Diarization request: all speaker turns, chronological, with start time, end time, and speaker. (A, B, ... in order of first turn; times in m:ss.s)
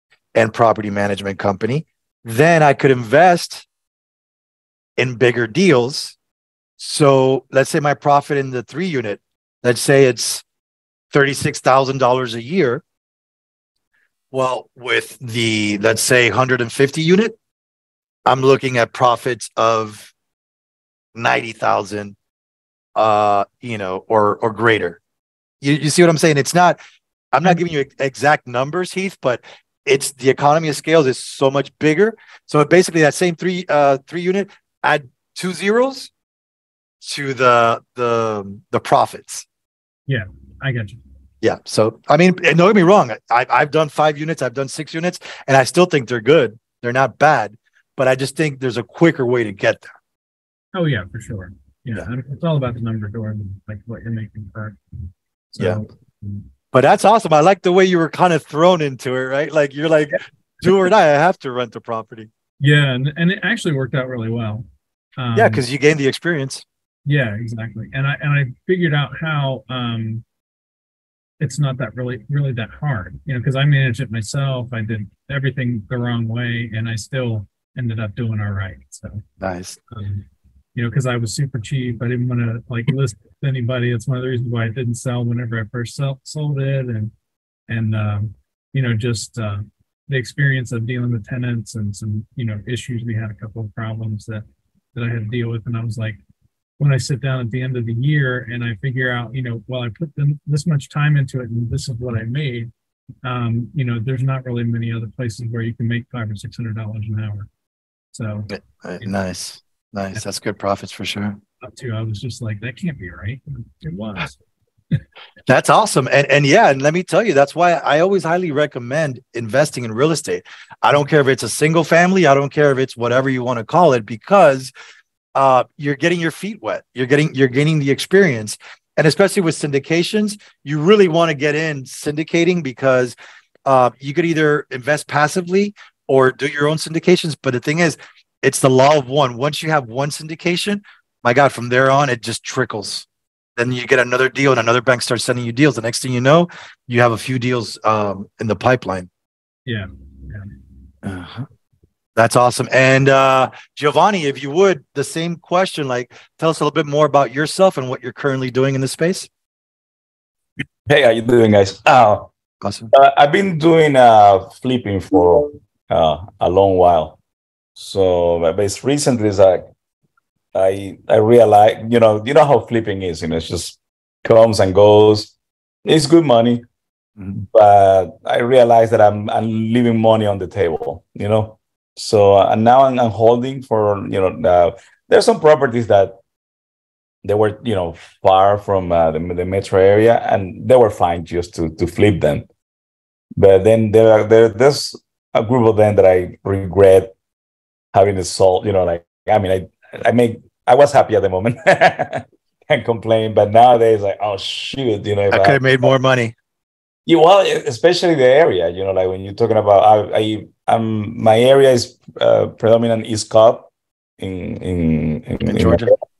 0:00.3-0:03.6 A
0:05.0-0:06.2 A
0:06.8-0:10.4 A
0:11.1-0:12.8 A
0:14.3-0:17.4 A
0:18.2-0:20.1 A
0:21.1-0:22.2 A
0:23.0-0:25.0 A
0:25.6-0:26.8 A
0:27.3-0:36.1 A
0:37.0-0:39.4 A
0:40.1-0:41.0 B
0:41.4-0:49.9 A
0:50.7-0:54.8 B
0:55.5-0:56.4 B
0:56.7-1:02.3 A
1:02.6-1:04.6 B
1:05.2-1:05.6 B
1:05.4-1:06.6 A
1:07.0-1:10.2 B
1:11.4-1:19.2 B
1:19.4-1:19.8 A
1:19.9-1:20.2 B
1:20.7-1:27.1 B
1:27.7-1:34.4 B
1:34.9-1:36.2 B
1:36.8-1:42.7 B
1:43.2-1:47.5 B
1:48.1-1:48.5 B
1:48.5-1:51.4 A
1:51.6-1:54.4 B
1:55.5-2:04.7 A
2:05.3-2:23.0 A
2:23.6-2:29.1 A
2:29.6-2:30.5 B
2:31.0-2:31.5 A
2:32.2-2:39.3 A
2:40.9-2:42.3 C
2:42.6-2:42.9 A
2:42.9-2:47.2 C
2:47.8-2:49.7 C
2:50.5-2:55.3 C
2:55.8-2:56.6 C
2:57.3-3:06.2 C
3:07.2-3:12.4 C
3:13.4-3:17.1 C
3:17.9-3:25.6 C
3:25.3-3:26.3 A
3:27.0-3:35.9 C
3:35.5-3:35.9 A